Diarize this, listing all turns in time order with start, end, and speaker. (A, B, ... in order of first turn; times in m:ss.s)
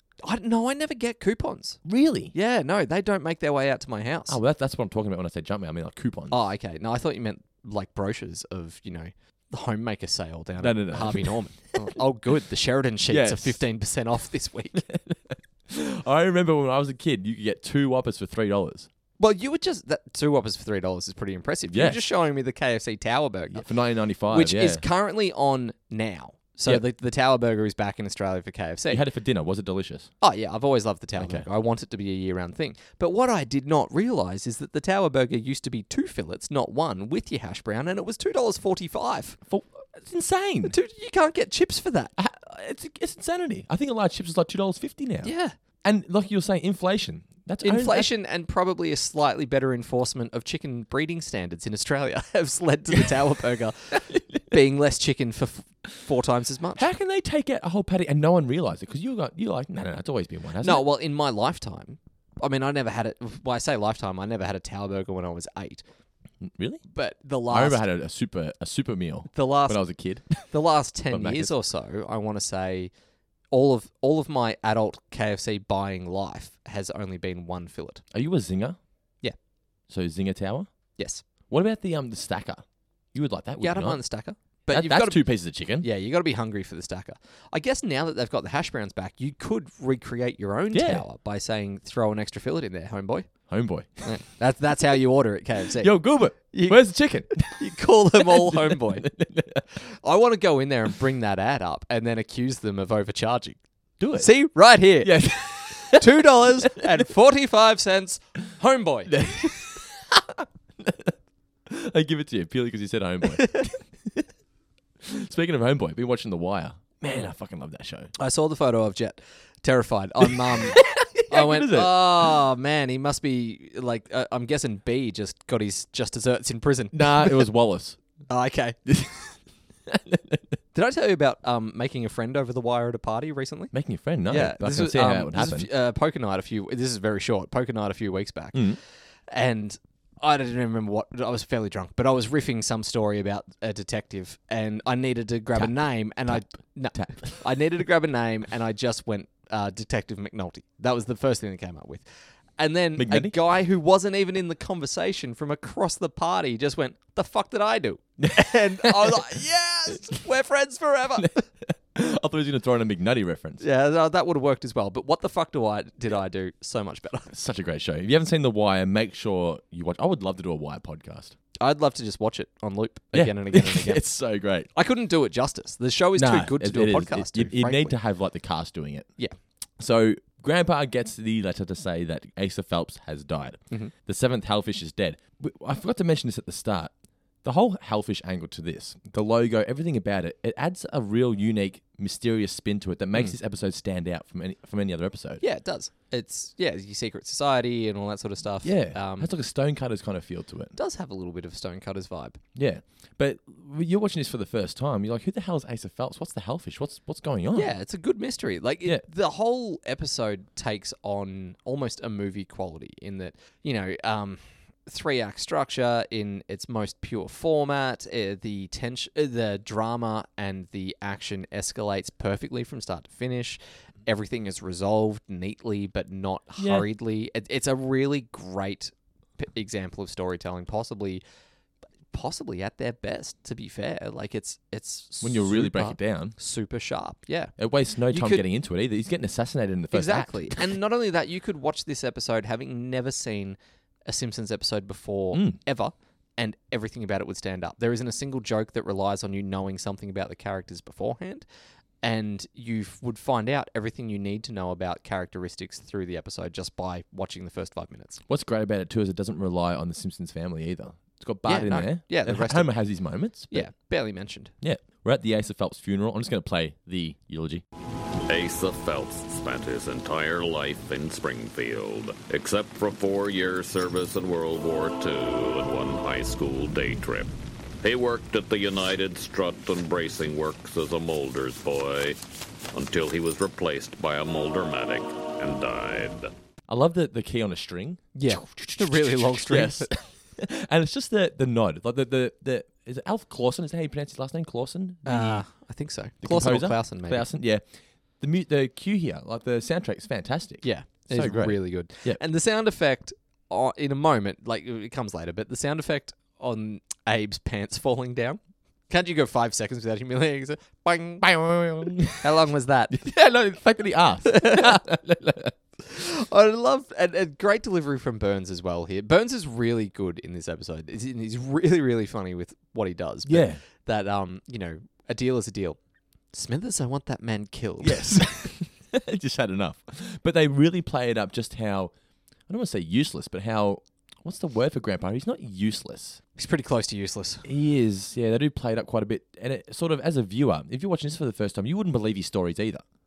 0:00.2-0:01.8 A
0:01.8-0:02.3 B
0:02.3-0:04.4 A
0:04.3-0:06.4 B
0:06.3-0:14.8 A
0:10.6-0:11.9 B
0:13.1-0:13.6 B
0:14.8-0:18.9 B
0:19.2-0:23.7 A
0:21.7-0:22.0 B
0:23.5-0:24.8 B
0:24.3-0:29.0 A
0:28.9-0:30.1 B
0:30.2-0:39.4 A
0:31.2-0:31.5 B
0:39.5-0:40.8 B
0:40.6-0:42.1 A
0:42.2-0:45.3 B
0:45.2-0:45.6 A
0:45.8-0:48.1 B
0:47.6-0:56.9 A
0:54.0-0:54.4 B
0:56.8-1:00.9 B
1:00.6-1:05.8 A
1:06.4-1:06.8 B
1:06.9-1:07.8 A
1:07.5-1:10.5 B
1:09.3-1:09.8 A
1:10.4-1:12.9 A
1:11.1-1:11.5 B
1:13.5-1:18.0 A
1:18.1-1:18.8 B
1:19.9-1:20.7 B
1:21.0-1:21.2 A
1:21.5-1:24.0 B
1:23.6-1:33.3 A
1:24.7-1:25.9 B
1:30.7-1:31.0 B
1:33.5-1:34.2 B
1:34.0-1:39.1 A
1:35.8-1:37.6 B
1:38.2-1:39.7 B
1:40.0-1:43.6 A
1:44.0-1:46.8 B
1:44.2-1:49.2 A
1:49.1-1:51.2 B
1:51.7-1:54.2 B
1:53.4-1:53.7 A
1:55.0-1:58.1 B
1:58.2-2:07.5 A
2:00.3-2:02.4 B
2:06.9-2:08.0 B
2:08.3-2:08.8 A
2:08.9-2:10.5 B
2:10.7-2:13.7 A
2:13.7-2:15.7 B
2:14.3-2:32.0 A
2:18.5-2:18.8 B
2:25.6-2:27.5 B
2:32.6-2:41.4 A
2:33.0-2:33.4 B
2:38.2-2:39.2 B
2:41.2-2:43.6 B
2:43.6-2:47.3 A
2:47.3-2:51.4 B
2:51.6-2:54.0 A
2:53.1-2:54.7 B
2:54.7-2:58.0 A
2:56.2-2:59.1 B
2:59.8-3:06.9 B
3:07.4-3:15.4 B
3:15.4-3:19.3 A
3:18.6-3:20.8 B
3:20.8-3:22.4 A
3:22.6-3:27.7 B
3:27.6-3:51.2 A
3:46.6-3:46.9 B
3:52.1-3:57.6 A
3:55.2-3:56.4 B
3:57.6-4:00.6 B
3:58.1-3:58.4 A
3:59.9-4:11.4 A
4:05.3-4:05.6 B
4:12.0-4:18.2 A
4:18.3-4:23.7 B
4:21.5-4:22.8 A
4:23.5-4:24.5 A
4:24.6-4:27.6 B
4:28.3-4:42.2 C
4:42.7-4:46.3 C
4:46.7-4:55.5 B
4:48.2-4:49.9 A
4:55.1-4:57.3 A
4:56.2-4:57.6 B
4:58.2-5:02.2 B
5:00.6-5:11.3 A
5:11.2-5:12.4 B
5:12.2-5:13.0 A
5:12.9-5:15.6 B
5:14.2-5:14.8 A
5:15.9-5:25.8 A
5:23.3-5:23.6 B
5:26.3-5:28.5 A
5:27.8-5:31.9 B
5:32.5-5:36.2 B
5:36.4-5:37.4 A
5:37.4-5:42.8 B